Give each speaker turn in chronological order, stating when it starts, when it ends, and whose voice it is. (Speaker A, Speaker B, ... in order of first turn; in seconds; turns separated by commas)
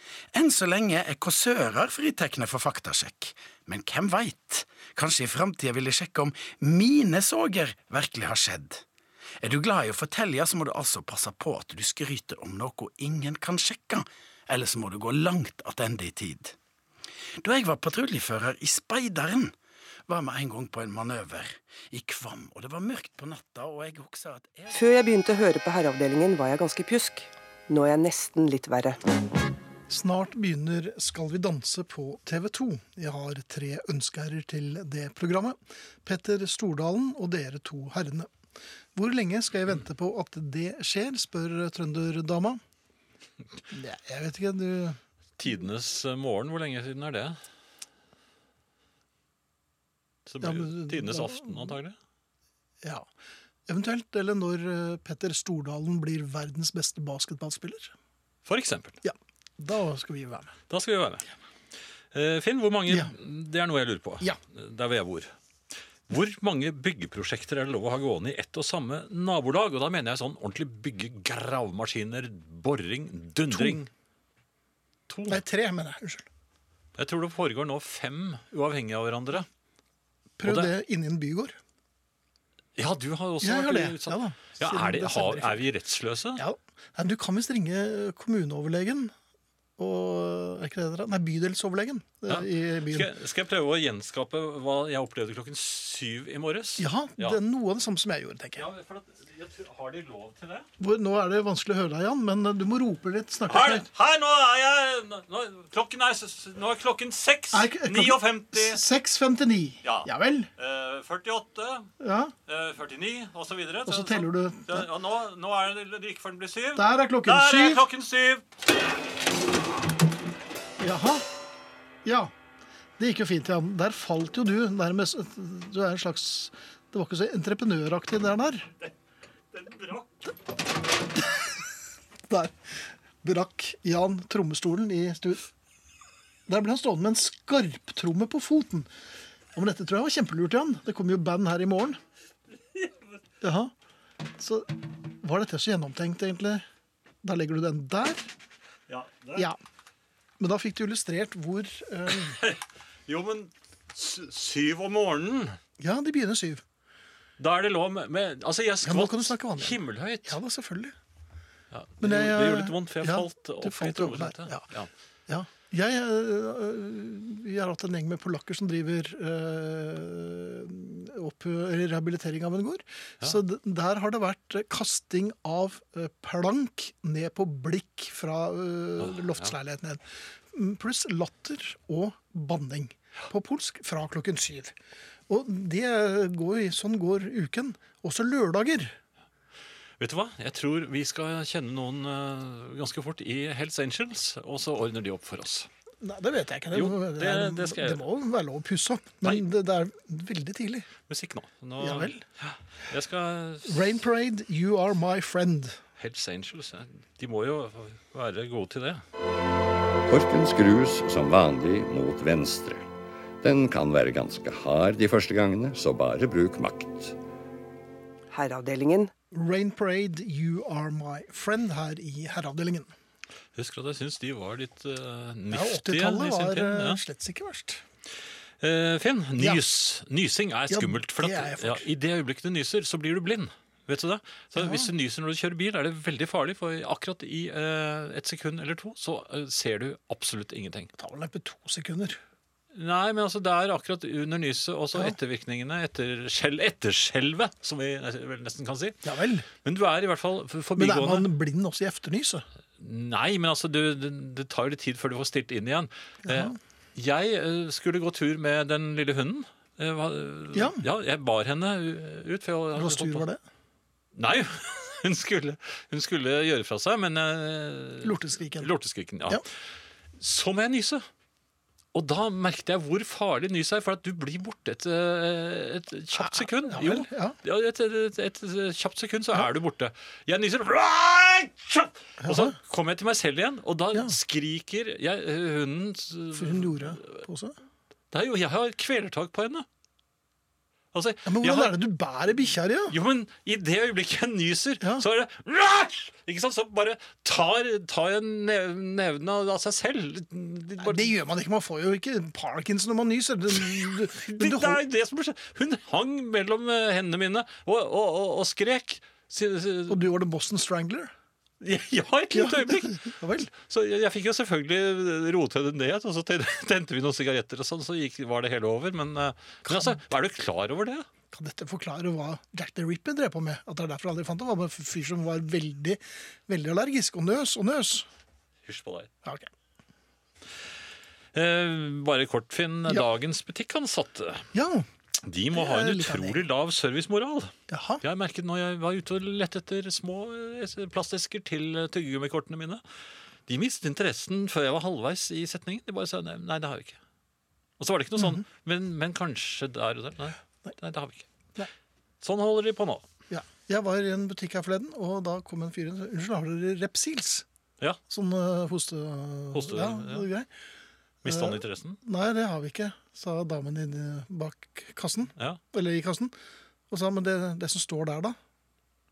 Speaker A: 0.3-8.8, Speaker A: 9.4-16.6, Speaker A: 17.4-19.5, Speaker A: 20.1-24.7, Speaker B: 24.7-29.0, Speaker C: 29.9-38.3, Speaker C: 38.9-42.6, Speaker C: 43.7-45.0, Speaker D: 45.4-47.4, Speaker D: 50.2-52.0, Speaker C: 50.4-51.8, Speaker C: 52.8-53.1, Speaker C: 53.7-57.9, Speaker D: 58.5-59.0, Speaker C: 59.0-60.6, Speaker D: 60.7-61.3, Speaker D: 62.1-65.3, Speaker C: 62.9-63.1, Speaker D: 66.1-73.9, Speaker C: 73.5-73.8, Speaker D: 75.1-75.4, Speaker C: 75.3-76.2, Speaker D: 77.0-79.5, Speaker C: 80.4-81.6, Speaker D: 80.4-80.7, Speaker D: 82.8-86.4, Speaker C: 83.4-85.7, Speaker C: 86.3-89.1, Speaker C: 89.8-93.1, Speaker D: 92.3-97.4, Speaker C: 96.8-98.7, Speaker D: 98.5-100.7, Speaker C: 100.8-103.9, Speaker D: 103.5-108.8, Speaker C: 107.5-110.5, Speaker D: 109.8-111.9, Speaker C: 112.0-112.3, Speaker D: 112.5-118.4, Speaker C: 113.8-114.9, Speaker C: 116.7-117.8, Speaker C: 120.8-121.2, Speaker C: 122.0-122.3, Speaker C: 123.0-128.7, Speaker D: 129.5-130.3, Speaker C: 132.3-135.4, Speaker C: 136.5-138.9, Speaker C: 139.5-142.0, Speaker C: 143.4-143.7, Speaker C: 144.4-144.7, Speaker C: 145.2-146.6, Speaker C: 147.2-148.3, Speaker D: 148.9-149.5, Speaker C: 150.4-152.4, Speaker D: 152.1-155.6, Speaker C: 155.8-156.6, Speaker D: 157.4-160.4, Speaker C: 158.8-160.9, Speaker D: 161.7-164.9, Speaker C: 162.0-164.6, Speaker C: 165.3-184.7, Speaker D: 179.1-179.5, Speaker C: 185.3-188.9, Speaker D: 190.0-195.7, Speaker C: 196.0-200.9, Speaker D: 196.7-198.0, Speaker D: 201.1-203.9, Speaker C: 201.8-202.2, Speaker C: 203.7-205.8, Speaker D: 206.0-209.0, Speaker E: 210.1-212.8, Speaker E: 213.4-217.1, Speaker B: 218.3-219.1, Speaker C: 219.3-222.9, Speaker D: 223.6-227.0, Speaker C: 225.5-227.8, Speaker D: 228.6-240.9, Speaker C: 230.7-231.9, Speaker C: 234.6-234.9, Speaker C: 241.0-242.2, Speaker D: 242.7-249.0, Speaker C: 249.0-249.5, Speaker D: 249.6-251.3, Speaker C: 250.8-252.4, Speaker D: 252.8-263.3, Speaker C: 256.2-256.6, Speaker C: 260.5-260.8, Speaker C: 262.8-263.4, Speaker D: 264.1-269.5, Speaker C: 268.0-268.7, Speaker D: 270.2-271.0, Speaker D: 271.9-287.2, Speaker C: 276.1-277.4, Speaker C: 282.2-282.6, Speaker C: 286.3-287.6, Speaker D: 288.1-289.6, Speaker D: 290.9-291.8, Speaker C: 291.2-292.9, Speaker D: 292.9-301.1, Speaker C: 300.8-304.8, Speaker D: 303.6-310.1, Speaker C: 309.9-311.1, Speaker D: 311.6-321.1, Speaker C: 312.3-313.5, Speaker C: 319.6-320.0, Speaker C: 321.3-328.1, Speaker D: 328.6-329.1, Speaker C: 329.2-329.5, Speaker D: 331.3-334.5, Speaker C: 334.5-334.9, Speaker D: 335.2-342.8, Speaker C: 335.5-336.4, Speaker C: 337.7-338.0, Speaker D: 343.5-347.0, Speaker D: 347.8-351.3, Speaker C: 348.2-348.4, Speaker D: 352.2-353.0, Speaker C: 353.3-357.4, Speaker C: 358.1-360.5, Speaker D: 359.5-360.2, Speaker D: 361.2-362.0, Speaker C: 361.2-366.3, Speaker C: 366.9-368.4